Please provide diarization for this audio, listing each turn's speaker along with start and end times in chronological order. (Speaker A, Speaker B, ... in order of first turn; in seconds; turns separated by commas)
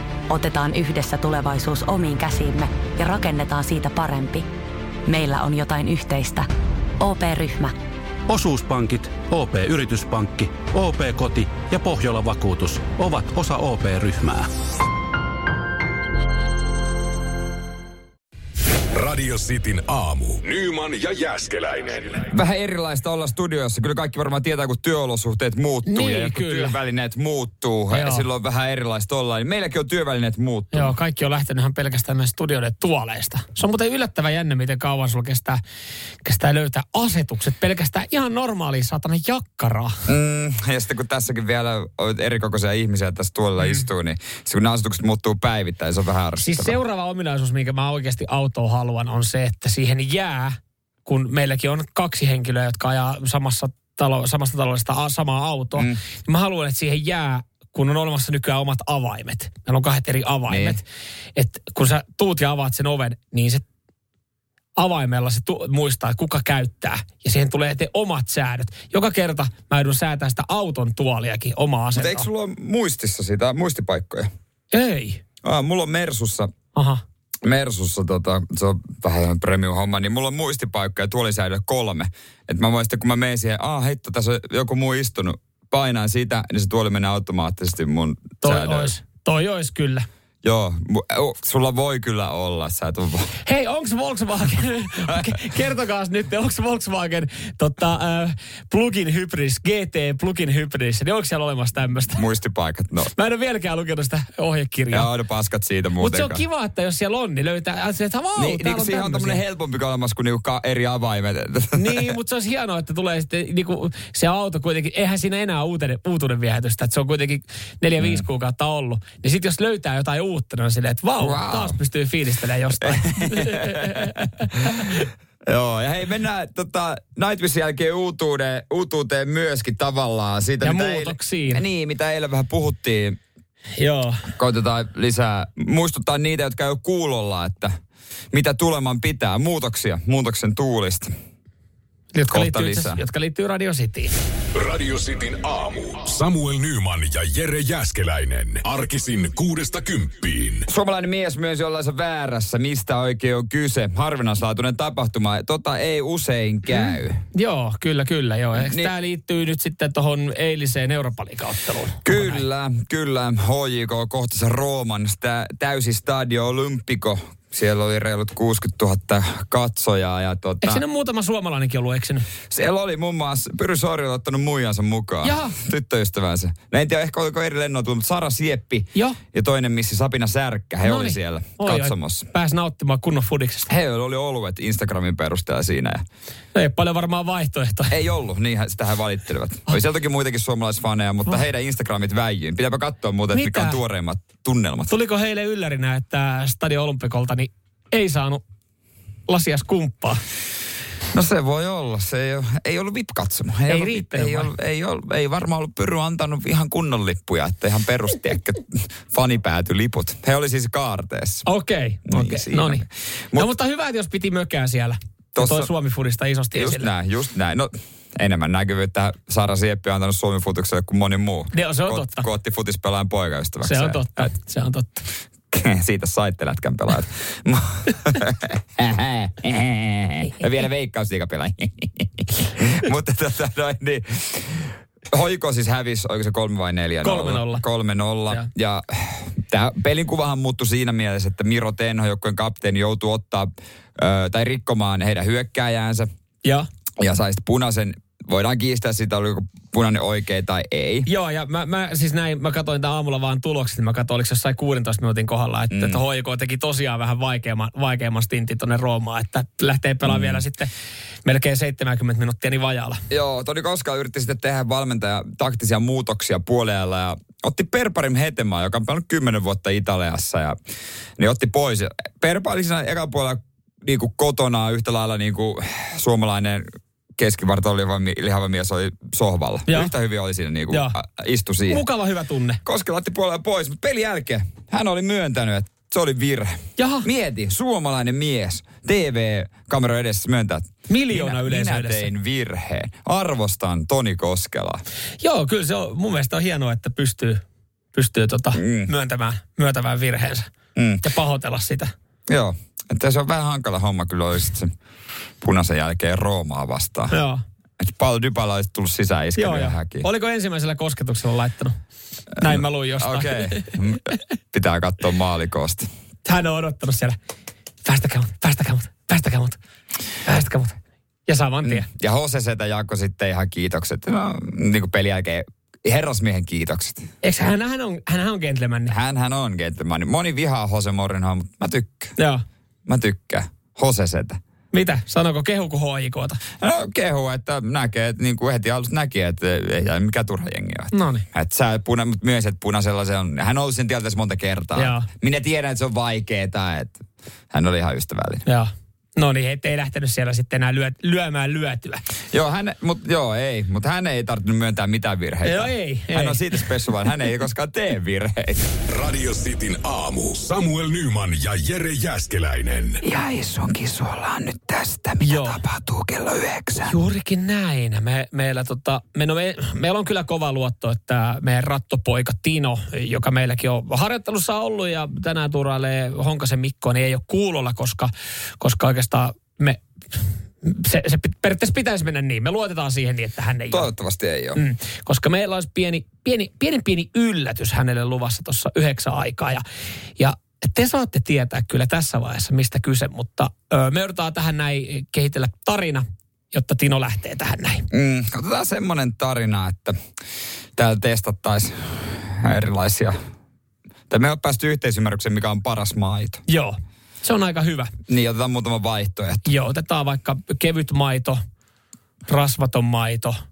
Speaker A: 0.3-4.5, Speaker A: 5.1-6.5, Speaker A: 7.0-7.8, Speaker B: 8.8-9.6, Speaker B: 10.2-11.7, Speaker B: 12.7-13.0, Speaker C: 18.9-22.2, Speaker D: 22.3-30.9, Speaker E: 25.9-26.8, Speaker E: 27.9-28.2, Speaker E: 30.7-35.6, Speaker E: 36.2-40.0, Speaker D: 40.1-46.8, Speaker E: 46.4-60.8, Speaker D: 60.5-60.8, Speaker E: 61.4-63.6, Speaker E: 64.8-72.3, Speaker D: 71.9-74.3, Speaker E: 74.7-75.2, Speaker D: 75.4-76.5, Speaker E: 76.7-77.0, Speaker D: 77.4-88.9, Speaker E: 88.4-90.0, Speaker D: 90.4-93.3, Speaker E: 93.5-102.2, Speaker D: 102.1-103.1, Speaker E: 103.2-105.1, Speaker D: 104.9-106.4, Speaker E: 106.0-109.4, Speaker D: 108.3-112.1, Speaker E: 111.7-125.1, Speaker D: 118.0-118.2, Speaker D: 121.2-121.8, Speaker D: 122.8-124.9, Speaker D: 125.5-133.2, Speaker E: 130.6-131.6, Speaker E: 133.8-134.2, Speaker D: 134.3-137.7, Speaker D: 138.3-141.1, Speaker E: 142.1-144.1, Speaker D: 142.3-143.0, Speaker C: 144.5-150.7, Speaker D: 150.7-157.2, Speaker E: 156.7-162.4, Speaker D: 158.6-158.9, Speaker D: 162.0-170.8, Speaker E: 170.6-172.3, Speaker D: 172.5-182.3, Speaker E: 175.2-175.5, Speaker E: 180.8-183.7, Speaker D: 183.7-186.0, Speaker E: 186.5-187.9, Speaker D: 187.9-194.9, Speaker E: 193.3-193.8, Speaker E: 194.9-198.4, Speaker E: 199.3-200.2, Speaker D: 201.1-211.4, Speaker E: 203.7-204.5, Speaker E: 211.4-212.8, Speaker D: 212.1-213.5, Speaker E: 213.3-216.9, Speaker D: 215.3-215.7, Speaker D: 216.5-224.3, Speaker E: 221.5-222.2, Speaker E: 223.6-225.1, Speaker D: 225.5-246.1, Speaker E: 237.0-237.6, Speaker D: 247.0-251.1, Speaker E: 251.1-260.7, Speaker D: 255.7-256.0, Speaker D: 260.0-260.4, Speaker E: 261.2-263.0, Speaker D: 263.1-270.6, Speaker D: 271.2-281.8, Speaker E: 280.7-280.9, Speaker E: 281.7-282.6, Speaker D: 282.6-294.8, Speaker E: 286.8-287.1, Speaker E: 290.9-292.1, Speaker E: 295.2-297.4, Speaker E: 297.9-300.5, Speaker D: 298.5-298.9, Speaker D: 300.8-301.0, Speaker E: 301.0-301.9, Speaker D: 302.3-304.7, Speaker D: 305.4-307.1, Speaker E: 307.1-307.4, Speaker D: 307.8-310.1, Speaker E: 309.4-311.8, Speaker D: 312.4-315.9, Speaker E: 312.4-313.7, Speaker E: 316.2-317.1, Speaker E: 317.8-319.6, Speaker E: 320.2-321.9, Speaker D: 321.6-327.1, Speaker E: 327.2-328.9, Speaker D: 328.9-332.1, Speaker E: 332.2-332.4, Speaker D: 332.9-334.4, Speaker E: 334.7-336.4, Speaker D: 336.6-347.0, Speaker E: 340.9-341.2, Speaker E: 344.8-345.1, Speaker D: 347.5-348.4, Speaker E: 348.4-352.0, Speaker D: 352.3-358.7, Speaker E: 355.4-356.5, Speaker C: 358.9-363.0, Speaker D: 363.0-367.0, Speaker E: 365.2-365.6, Speaker E: 366.8-379.8, Speaker E: 380.6-383.9, Speaker D: 383.7-384.6, Speaker E: 384.6-389.6, Speaker E: 390.2-397.9, Speaker D: 397.9-400.0, Speaker D: 400.7-403.2, Speaker D: 404.1-406.4, Speaker E: 406.5-407.9, Speaker D: 408.1-409.5, Speaker E: 409.4-411.4, Speaker E: 412.3-413.4